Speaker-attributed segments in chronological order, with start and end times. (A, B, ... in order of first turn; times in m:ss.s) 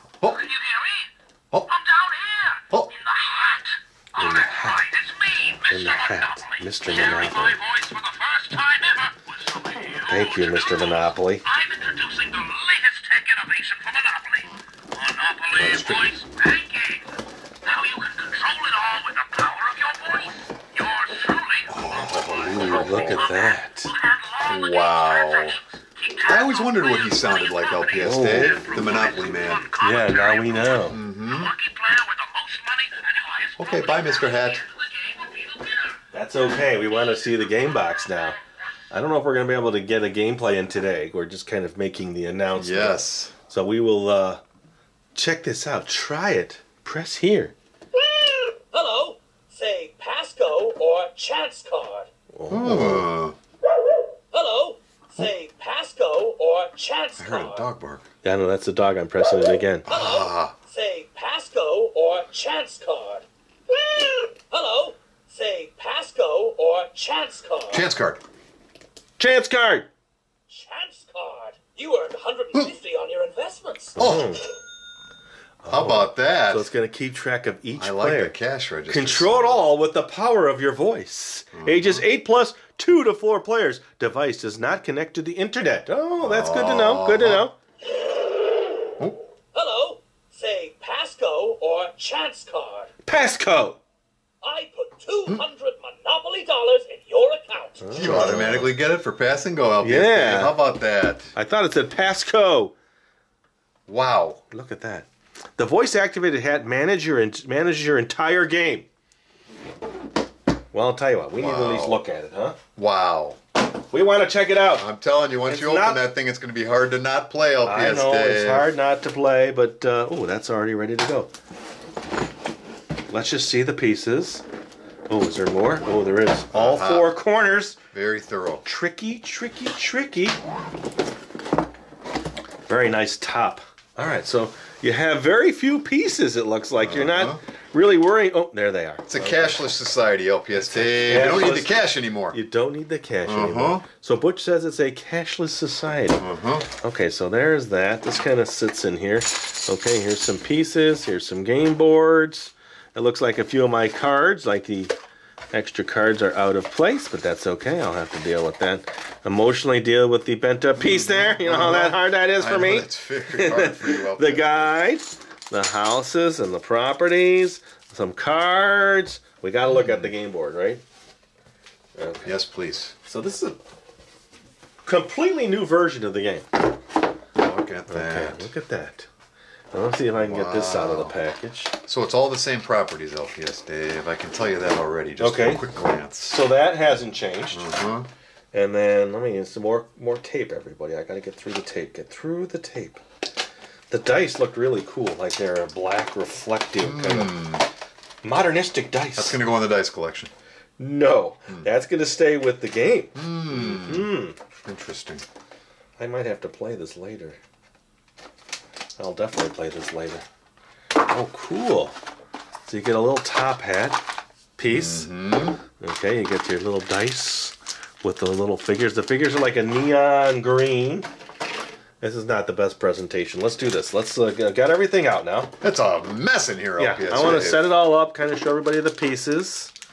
0:00.2-0:00.4 A
0:00.5-0:01.1 B
0:01.8-0:02.1 C
0:02.1-0:03.7 B
0:04.1-0:04.9 D
0:04.2-0:17.0 B
0:05.7-0:07.6 D
0:10.0-0:11.4 D
0:15.6-0:16.0 D
0:17.6-0:23.1 B
0:21.7-0:23.3 A
0:22.4-0:23.9 D
0:24.0-0:25.4 B
0:24.4-0:25.6 A
0:24.5-0:24.9 C
0:26.0-0:27.9 C
0:26.1-0:26.8 B
0:26.2-0:29.7 A
0:27.8-0:35.9 B
0:28.0-0:28.8 D
0:29.8-0:31.0 D
0:30.8-0:31.5 A
0:33.6-0:34.6 A
0:36.1-0:38.4 D
0:38.9-0:44.4 D
0:42.5-0:43.3 A
0:45.1-0:47.5 D
0:48.7-0:52.1 C
0:52.3-0:53.1 D
0:52.5-0:53.4 A
0:54.3-0:57.6 C
0:57.2-0:58.0 A
0:58.2-0:59.9 D
0:59.9-1:03.2 C
0:59.9-1:00.5 A
1:04.0-1:07.9 C
1:07.7-1:08.2 A
1:09.2-1:09.9 D
1:10.5-1:14.0 C
1:14.0-1:14.3 A
1:14.0-1:14.4 D
1:15.6-1:18.4 D
1:15.7-1:16.7 A
1:17.8-1:19.7 A
1:18.9-1:27.6 D
1:21.5-1:22.0 A
1:26.2-1:27.5 A
1:29.5-1:32.9 C
1:33.0-1:33.8 D
1:34.4-1:37.9 C
1:37.8-1:38.7 D
1:37.9-1:41.3 A
1:39.8-1:40.6 D
1:41.4-1:42.7 D
1:43.9-1:44.4 A
1:44.5-1:48.9 D
1:50.7-1:52.6 D
1:51.4-1:52.0 A
1:52.8-1:53.4 A
1:53.9-1:54.9 D
1:54.8-1:58.7 A
1:55.4-1:56.0 D
1:57.6-2:01.3 D
2:03.1-2:04.4 D
2:05.1-2:07.8 D
2:06.5-2:07.1 A
2:07.9-2:08.6 A
2:08.6-2:10.4 D
2:12.7-2:19.6 D
2:16.8-2:17.4 A
2:19.1-2:22.4 A
2:20.6-2:21.8 D
2:22.3-2:26.2 D
2:23.2-2:23.8 A
2:26.2-2:26.7 A
2:26.8-2:34.9 D
2:35.5-2:50.8 D
2:40.8-2:44.7 A
2:49.7-2:50.1 A
2:52.0-2:52.4 D
2:52.2-2:52.9 A
2:53.0-2:53.6 D
2:54.8-2:56.5 D
2:57.4-2:58.5 A
2:57.9-2:59.1 D
2:59.7-3:01.8 D
3:00.2-3:01.1 A
3:01.8-3:06.4 A
3:05.2-3:05.7 D
3:06.3-3:07.7 D
3:07.5-3:08.1 A
3:08.5-3:13.0 D
3:13.9-3:17.4 D
3:16.8-3:17.6 A
3:18.2-3:19.4 D
3:19.2-3:20.3 A
3:20.8-3:24.4 D
3:23.1-3:24.1 A
3:24.6-3:25.2 A
3:26.0-3:27.4 D
3:29.0-3:30.2 D
3:31.0-3:32.0 D
3:32.6-3:35.1 D
3:34.6-3:35.6 A
3:35.8-3:41.1 D
3:42.0-3:45.5 D
3:45.6-3:47.7 A
3:46.8-3:49.7 D